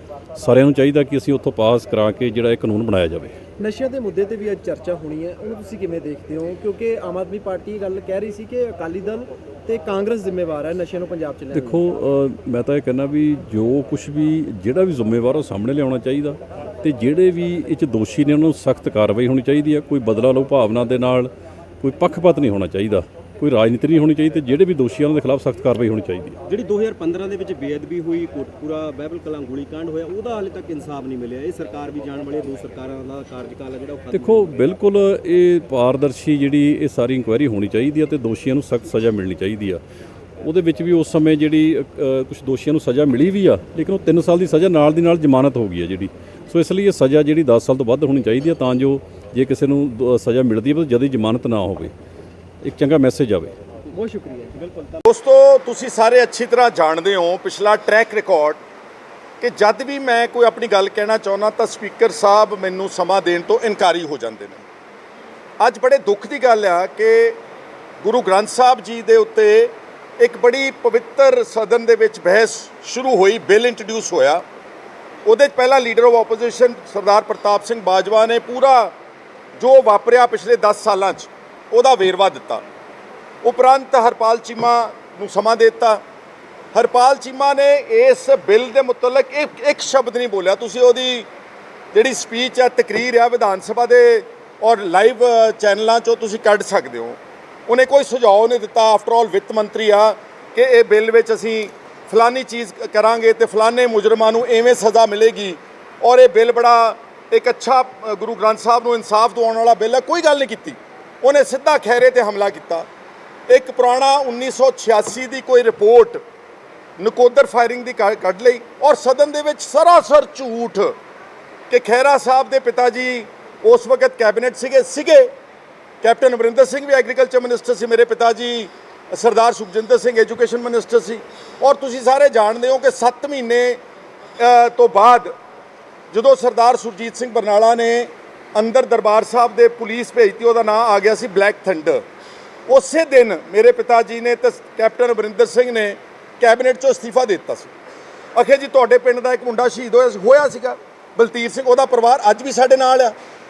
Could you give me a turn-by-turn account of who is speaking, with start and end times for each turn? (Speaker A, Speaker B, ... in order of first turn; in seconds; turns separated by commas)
Speaker A: 0.3-3.4, Speaker B: 3.6-11.8, Speaker A: 11.5-26.4, Speaker C: 26.5-34.7, Speaker A: 34.1-39.8, Speaker A: 40.4-51.9, Speaker A: 52.6-53.5, Speaker B: 53.9-54.5, Speaker C: 54.5-55.0, Speaker D: 55.0-58.6, Speaker D: 59.4-64.6, Speaker D: 65.6-67.4, Speaker D: 68.0-74.4, Speaker D: 75.2-78.9, Speaker D: 79.6-82.6, Speaker D: 83.4-86.0, Speaker D: 86.7-91.3, Speaker D: 91.9-112.8, Speaker D: 113.5-116.2, Speaker D: 117.0-121.0, Speaker D: 121.7-125.3, Speaker D: 126.0-133.8, Speaker D: 134.4-135.3, Speaker D: 136.1-142.0, Speaker D: 142.7-147.7, Speaker D: 148.3-153.1